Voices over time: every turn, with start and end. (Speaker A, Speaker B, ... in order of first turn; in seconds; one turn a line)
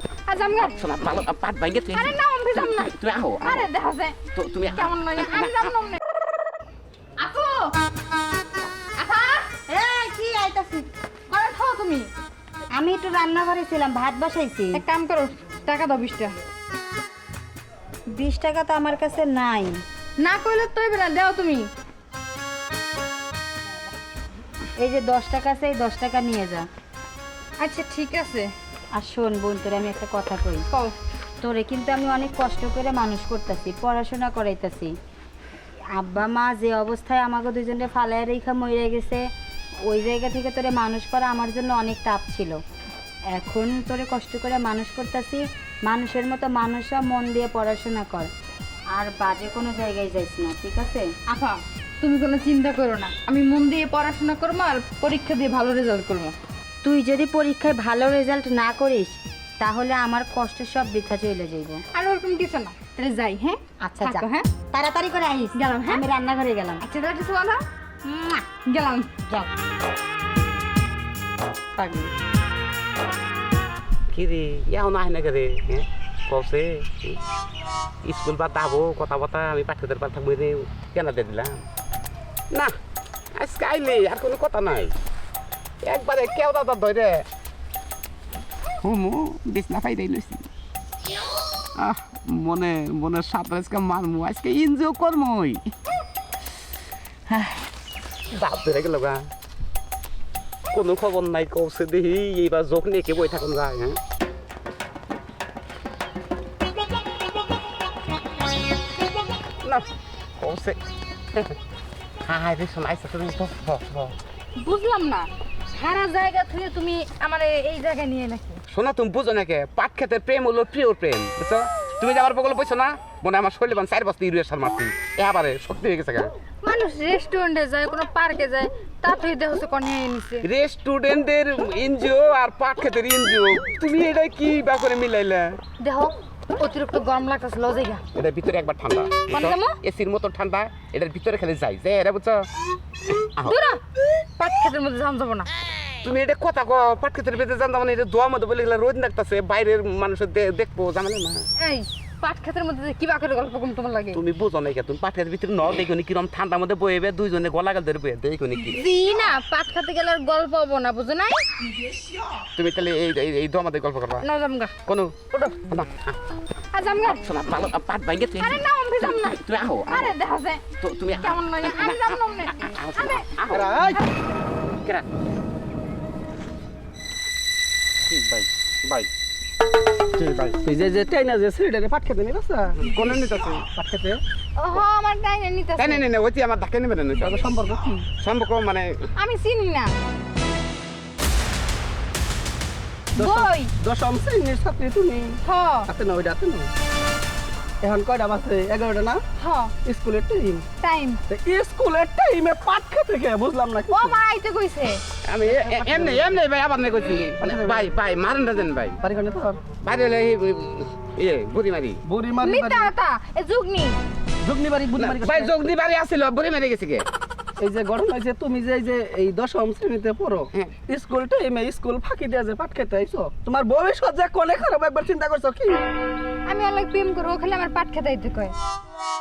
Speaker A: 0.3-0.8
Speaker B: 0.6-3.7
Speaker A: 1.9-4.2
Speaker B: 4.3-5.7
Speaker A: 4.7-6.0
Speaker A: 7.2-7.7
Speaker A: 9.0-9.5
Speaker C: 9.7-10.9
Speaker A: 11.3-12.1
Speaker C: 12.7-14.8
Speaker A: 14.7-16.4
Speaker C: 18.1-19.8
Speaker A: 20.2-21.7
Speaker C: 24.8-26.7
Speaker A: 27.6-28.5
Speaker C: 28.9-30.6
Speaker C: 31.4-34.9
Speaker C: 35.9-39.3
Speaker C: 39.9-42.6
Speaker C: 43.3-48.3
Speaker C: 48.9-51.1
Speaker A: 51.3-56.3
Speaker C: 56.8-61.8
Speaker A: 61.9-64.5
Speaker C: 63.8-66.8
Speaker A: 65.5-66.0
Speaker A: 66.8-69.2
Speaker C: 71.8-72.1
Speaker B: 74.1-77.2
Speaker B: 78.0-81.6
Speaker B: 83.3-84.9
Speaker B: 85.8-87.2
Speaker B: 88.8-90.5
Speaker B: 91.8-95.6
Speaker B: 98.3-99.3
Speaker B: 100.7-104.0
Speaker B: 110.4-110.8
Speaker B: 112.2-114.1
Speaker A: 114.6-118.6
Speaker B: 118.7-126.3
Speaker A: 126.6-130.5
Speaker B: 130.4-135.6
Speaker A: 135.8-138.0
Speaker B: 138.1-142.5
Speaker A: 139.3-139.8
Speaker B: 143.1-143.6
Speaker A: 143.4-143.8
Speaker A: 144.4-145.5
Speaker B: 146.0-151.4
Speaker A: 151.6-154.2
Speaker B: 154.1-158.8
Speaker A: 158.7-161.4
Speaker B: 162.6-164.2
Speaker A: 164.2-164.7
Speaker B: 164.8-166.2
Speaker A: 166.7-167.2
Speaker B: 167.0-170.1
Speaker A: 168.4-170.6
Speaker B: 170.8-173.7
Speaker A: 171.2-173.3
Speaker D: 173.5-174.0
Speaker B: 178.1-179.1
Speaker B: 180.2-180.5
Speaker D: 180.6-184.2
Speaker B: 182.8-183.6
Speaker A: 184.6-186.0
Speaker B: 185.8-187.4
Speaker D: 187.2-188.1
Speaker B: 188.2-188.9
Speaker A: 189.2-189.9
Speaker D: 193.1-195.4
Speaker A: 193.2-193.7
Speaker A: 195.4-195.9
Speaker D: 195.9-196.7
Speaker D: 197.8-199.2
Speaker A: 199.4-199.7
Speaker D: 199.8-200.7
Speaker A: 200.8-201.2
Speaker D: 201.3-204.2
Speaker A: 203.9-205.0
Speaker B: 205.2-209.0
Speaker D: 205.7-206.0
Speaker D: 207.4-207.9
Speaker D: 209.0-209.6
Speaker B: 209.8-212.0
Speaker D: 212.1-212.9
Speaker A: 212.4-214.0
Speaker D: 214.4-215.6
Speaker B: 214.9-217.1
Speaker D: 217.6-225.8
Speaker A: 226.4-228.5